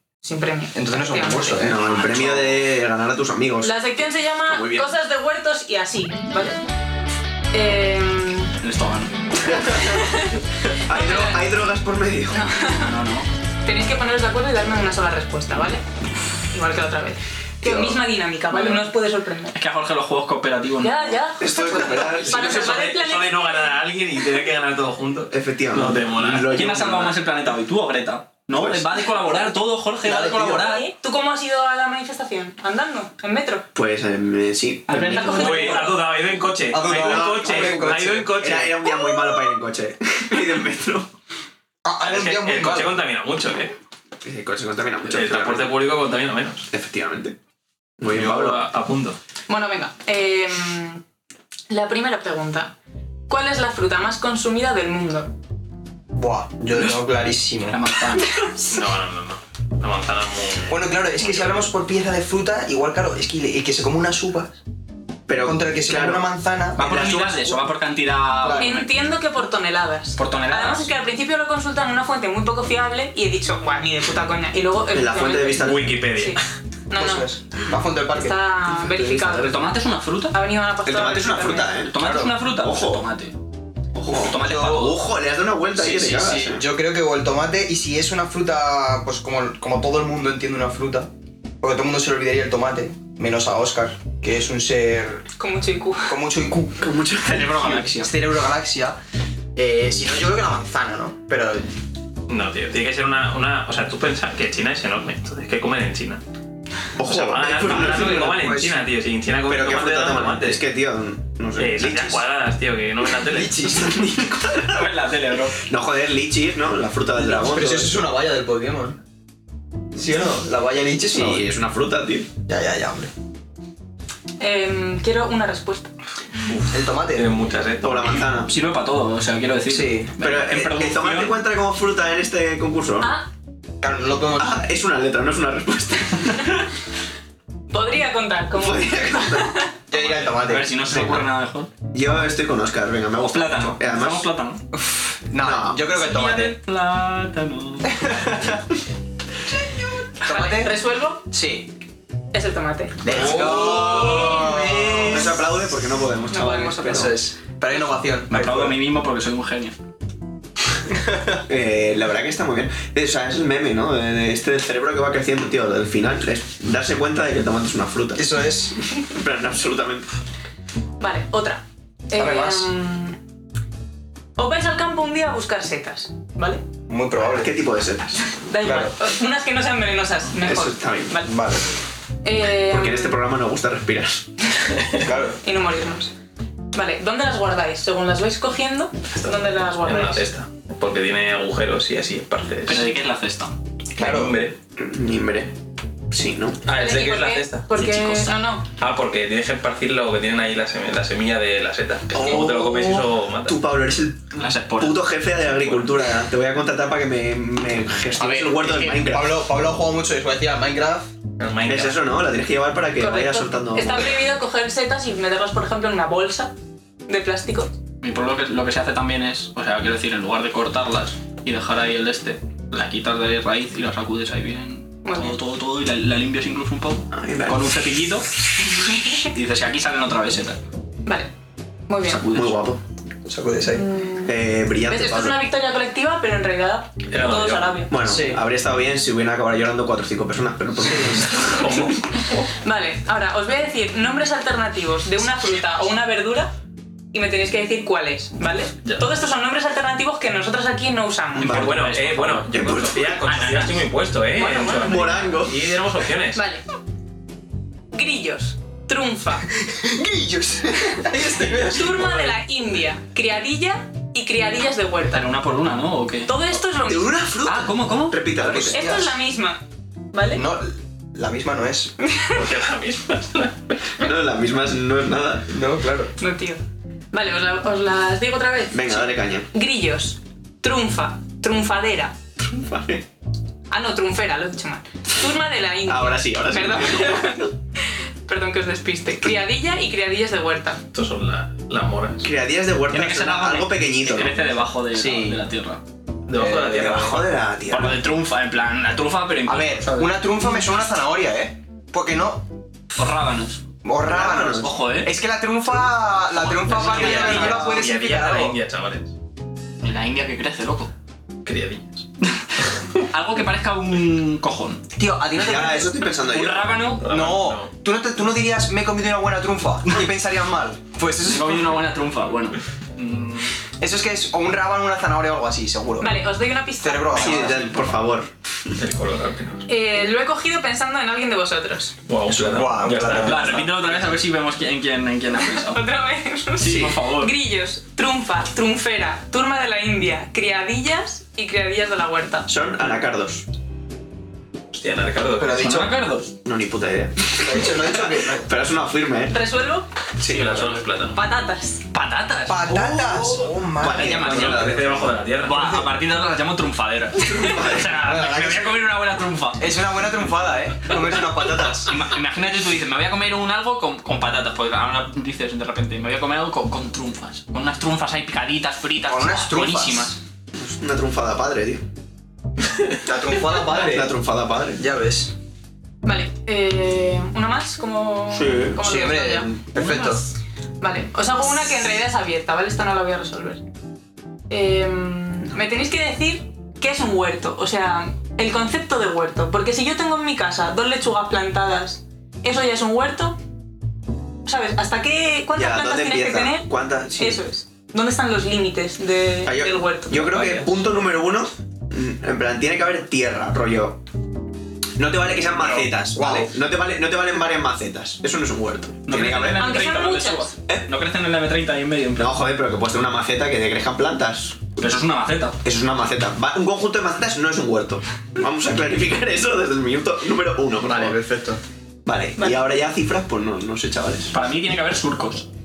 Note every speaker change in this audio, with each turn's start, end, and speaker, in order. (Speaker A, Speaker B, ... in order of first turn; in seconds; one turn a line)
Speaker A: 0.2-1.7
Speaker B: 0.7-2.4
Speaker C: 1.5-3.7
Speaker D: 2.0-2.4
Speaker A: 3.6-6.6
Speaker C: 4.5-4.9
Speaker A: 7.5-8.5
Speaker D: 8.6-9.1
Speaker C: 9.4-10.0
Speaker A: 9.4-10.4
Speaker C: 10.7-12.4
Speaker A: 10.9-11.5
Speaker A: 12.3-12.9
Speaker D: 12.8-13.3
Speaker A: 13.6-15.8
Speaker A: 16.5-19.6
Speaker C: 17.6-18.0
Speaker D: 18.5-18.9
Speaker D: 19.5-21.1
Speaker A: 20.8-23.8
Speaker C: 21.4-22.8
Speaker B: 21.7-22.2
Speaker D: 22.2-22.7
Speaker E: 22.3-26.5
Speaker C: 25.3-27.1
Speaker D: 26.4-30.9
Speaker C: 28.5-28.9
Speaker C: 30.0-30.6
Speaker A: 30.6-33.6
Speaker C: 33.7-35.2
Speaker D: 34.9-35.9
Speaker A: 35.1-36.0
Speaker E: 35.2-38.8
Speaker B: 36.7-38.3
Speaker C: 36.9-41.1
Speaker B: 41.8-43.0
Speaker E: 42.0-43.8
Speaker C: 44.2-45.8
Speaker E: 45.1-46.6
Speaker C: 46.7-47.4
Speaker C: 48.0-48.7
Speaker E: 48.0-49.2
Speaker A: 49.5-51.0
Speaker A: 51.7-52.7
Speaker A: 53.3-55.3
Speaker B: 56.1-57.8
Speaker D: 57.7-58.3
Speaker A: 58.2-58.7
Speaker E: 58.7-61.7
Speaker B: 60.7-64.6
Speaker C: 65.3-66.3
Speaker B: 65.4-67.1
Speaker D: 66.8-68.9
Speaker C: 66.8-67.6
Speaker B: 68.4-68.7
Speaker A: 68.6-77.3
Speaker D: 70.2-70.9
Speaker C: 74.9-76.0
Speaker E: 75.5-76.4
Speaker B: 76.9-78.4
Speaker A: 78.2-79.7
Speaker D: 79.1-80.4
Speaker A: 80.3-81.8
Speaker C: 80.8-83.0
Speaker D: 81.8-83.3
Speaker B: 82.0-82.4
Speaker C: 83.9-86.6
Speaker D: 84.1-85.0
Speaker B: 84.2-85.0
Speaker B: 85.7-95.2
Speaker A: 95.4-96.2
Speaker B: 96.1-96.9
Speaker C: 96.8-97.9
Speaker D: 97.2-98.1
Speaker B: 98.0-99.0
Speaker B: 99.5-101.7
Speaker E: 102.3-106.2
Speaker C: 107.0-108.3
Speaker E: 107.0-110.6
Speaker B: 107.7-108.9
Speaker C: 109.5-112.2
Speaker E: 111.5-113.6
Speaker B: 113.2-114.2
Speaker C: 113.6-115.0
Speaker D: 114.7-115.6
Speaker C: 115.6-118.0
Speaker B: 117.1-119.0
Speaker C: 119.9-122.3
Speaker B: 120.2-121.5
Speaker B: 122.5-123.1
Speaker A: 124.4-125.9
Speaker E: 126.4-128.3
Speaker B: 126.7-127.3
Speaker C: 127.8-128.5
Speaker D: 128.4-131.4
Speaker B: 129.7-130.2
Speaker C: 130.2-133.2
Speaker A: 133.0-133.3
Speaker B: 133.8-134.6
Speaker C: 134.4-136.7
Speaker A: 137.7-139.7
Speaker C: 138.5-139.6
Speaker B: 139.9-140.7
Speaker D: 139.9-141.7
Speaker C: 140.8-141.2
Speaker C: 141.9-144.3
Speaker D: 143.2-144.6
Speaker B: 144.8-146.5
Speaker C: 145.4-145.8
Speaker D: 145.9-148.3
Speaker B: 147.8-148.6
Speaker A: 150.2-151.2
Speaker B: 150.2-151.7
Speaker A: 152.3-153.1
Speaker B: 153.0-155.3
Speaker C: 153.1-157.2
Speaker D: 153.1-155.3
Speaker A: 154.2-154.5
Speaker A: 156.3-157.2
Speaker B: 156.8-158.8
Speaker D: 158.3-159.8
Speaker B: 160.9-161.2
Speaker C: 161.5-168.3
Speaker B: 168.1-168.8
Speaker C: 169.0-170.1
Speaker A: 171.0-173.2
Speaker B: 172.1-172.7
Speaker A: 174.4-176.6
Speaker B: 176.9-177.5
Speaker C: 177.2-178.2
Speaker A: 178.3-181.4
Speaker B: 178.6-178.9
Speaker C: 180.4-181.2
Speaker B: 181.2-181.6
Speaker A: 182.2-183.2
Speaker C: 182.6-184.3
Speaker B: 185.0-185.4
Speaker A: 185.4-186.1
Speaker A: 186.7-190.3
Speaker E: 189.1-192.9
Speaker D: 192.7-193.6
Speaker B: 194.0-194.4
Speaker E: 194.0-194.6
Speaker C: 194.8-195.5
Speaker C: 196.1-196.6
Speaker E: 196.7-197.7
Speaker A: 196.7-198.7
Speaker D: 197.7-198.4
Speaker E: 198.8-203.6
Speaker C: 202.1-209.4
Speaker A: 202.1-202.4
Speaker D: 204.4-205.1
Speaker B: 208.1-211.1
Speaker E: 211.4-212.0
Speaker C: 211.7-214.1
Speaker A: 213.0-216.5
Speaker A: 217.1-217.7
Speaker D: 218.0-228.3
Speaker A: 225.0-225.3
Speaker C: 227.1-227.8
Speaker A: 228.8-229.3
Speaker D: 229.3-230.6
Speaker A: 231.0-231.3
Speaker A: 231.9-232.3
Speaker C: 232.1-232.8
Speaker B: 233.2-233.8
Speaker A: 233.7-237.9
Speaker C: 234.2-235.4
Speaker E: 237.1-237.8
Speaker C: 237.9-241.8
Speaker B: 238.0-238.4
Speaker B: 240.8-241.3
Speaker A: 241.8-246.5
Speaker A: 247.1-251.6
Speaker D: 251.3-253.8
Speaker C: 251.4-251.9
Speaker E: 251.4-256.4
Speaker C: 252.5-253.4
Speaker A: 254.3-255.4
Speaker C: 254.6-255.7
Speaker A: 256.3-256.6
Speaker A: 257.9-259.4
Speaker B: 259.6-262.1
Speaker A: 261.5-265.3
Speaker D: 265.1-266.3
Speaker A: 266.2-267.1
Speaker C: 266.8-269.0
Speaker D: 267.4-268.6
Speaker B: 268.4-269.1
Speaker A: 268.7-269.6
Speaker A: 270.1-270.4
Speaker B: 270.3-271.9
Speaker A: 272.0-272.4
Speaker E: 272.3-273.9
Speaker C: 274.0-275.5
Speaker B: 275.5-276.1
Speaker A: 276.2-282.2
Speaker C: 278.7-279.5
Speaker C: 282.4-283.1
Speaker A: 283.7-290.8
Speaker C: 285.8-287.5
Speaker E: 290.9-292.3
Speaker C: 292.2-294.4
Speaker D: 292.9-295.8
Speaker B: 294.9-295.4
Speaker E: 296.3-297.3
Speaker B: 296.3-297.2
Speaker C: 296.4-298.0
Speaker D: 297.7-300.1
Speaker B: 299.4-302.4
Speaker D: 302.9-303.6
Speaker B: 303.8-308.6
Speaker C: 304.0-304.8
Speaker D: 304.5-305.1
Speaker D: 306.4-307.8
Speaker C: 306.8-307.5
Speaker E: 306.9-309.1
Speaker D: 309.8-310.9
Speaker E: 311.4-312.0
Speaker D: 313.1-314.8
Speaker B: 314.9-316.1
Speaker C: 315.4-316.9
Speaker D: 316.2-317.0
Speaker E: 316.8-317.7
Speaker B: 317.0-321.8
Speaker D: 321.2-323.5
Speaker B: 323.8-326.2
Speaker A: 326.0-327.3
Speaker B: 326.8-327.7
Speaker C: 327.1-328.3
Speaker D: 327.3-327.8
Speaker E: 328.8-329.6
Speaker A: 329.7-331.9
Speaker E: 332.1-334.0
Speaker B: 332.3-333.7
Speaker D: 333.2-335.8
Speaker A: 335.4-342.5
Speaker D: 336.6-337.3
Speaker C: 342.5-343.5
Speaker E: 344.7-345.8
Speaker B: 345.4-345.9
Speaker D: 345.5-346.3
Speaker C: 346.4-349.4
Speaker B: 347.4-348.5
Speaker A: 349.3-349.9
Speaker C: 350.2-350.6
Speaker E: 350.2-351.2
Speaker D: 350.3-351.0
Speaker A: 351.1-351.8
Speaker D: 351.9-354.8
Speaker B: 352.5-355.9
Speaker C: 353.8-355.1
Speaker E: 354.2-355.7
Speaker D: 355.4-359.7
Speaker C: 357.2-358.0
Speaker B: 357.9-358.8
Speaker B: 359.6-361.9
Speaker D: 361.9-370.2
Speaker B: 369.1-370.2
Speaker C: 370.6-371.8
Speaker B: 373.0-374.1
Speaker C: 373.5-374.8
Speaker B: 374.8-375.3
Speaker A: 376.0-380.2
Speaker C: 378.3-378.8
Speaker B: 378.8-380.2
Speaker A: 380.8-383.6
Speaker A: 384.5-393.4
Speaker A: 394.4-400.3
Speaker C: 395.5-397.4
Speaker C: 399.4-404.0
Speaker C: 405.0-409.7
Speaker D: 405.6-405.9
Speaker B: 406.1-406.5
Speaker D: 409.1-412.4
Speaker A: 409.6-410.5
Speaker C: 412.2-414.6
Speaker D: 414.8-415.6
Speaker C: 415.6-421.1
Speaker B: 420.8-421.6
Speaker C: 422.0-424.3
Speaker A: 422.4-422.6
Speaker D: 424.3-425.5